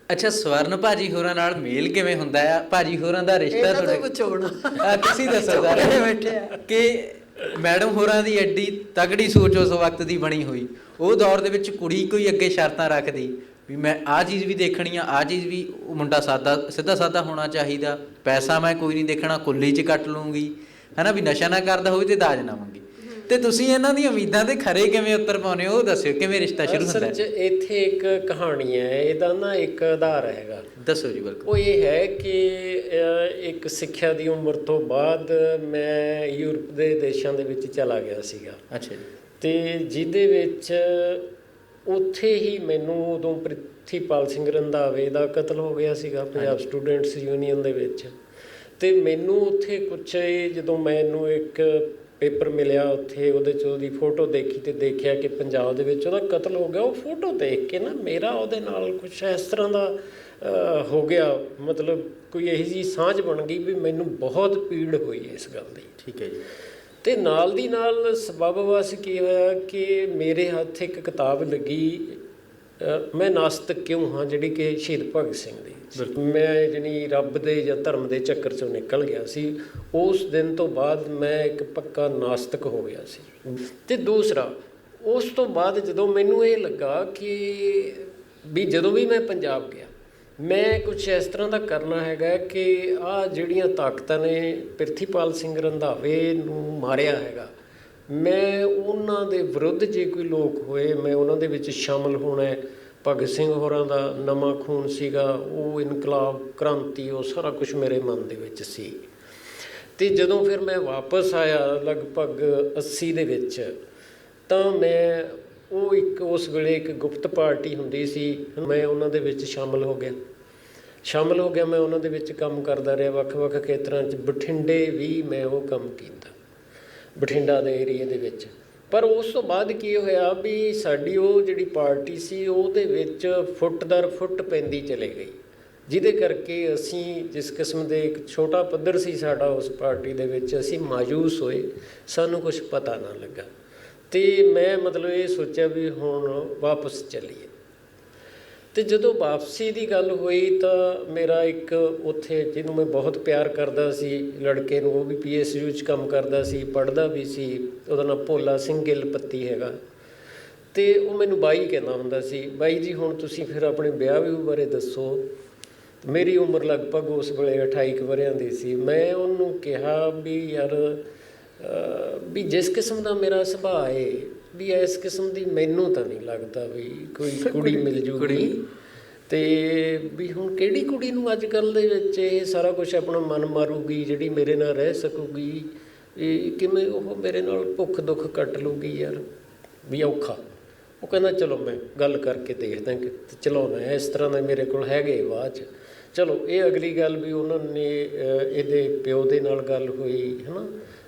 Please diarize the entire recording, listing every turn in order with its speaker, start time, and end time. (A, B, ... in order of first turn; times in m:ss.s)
0:00.1-0:04.0 A
0:03.5-0:06.6 B
0:04.8-0:27.2 A
0:26.6-0:30.7 C
0:30.8-0:31.5 A
0:31.4-0:38.6 C
0:38.7-0:39.1 A
0:39.4-0:41.3 C
0:41.9-0:48.2 C
0:48.8-1:05.9 C
1:06.0-1:06.5 A
1:07.0-1:12.2 C
1:12.8-1:37.5 C
1:38.1-1:49.1 C
1:50.0-1:53.7 C
1:54.5-2:00.2 C
2:01.0-2:06.3 C
2:07.2-2:23.5 C
2:24.1-2:27.5 C
2:28.7-2:39.8 C
2:40.7-2:45.3 C
2:46.0-2:51.0 C
2:51.6-2:58.6 C
2:57.3-2:58.6 A
2:59.3-3:09.2 C
3:09.8-3:10.4 C
3:11.0-3:20.7 C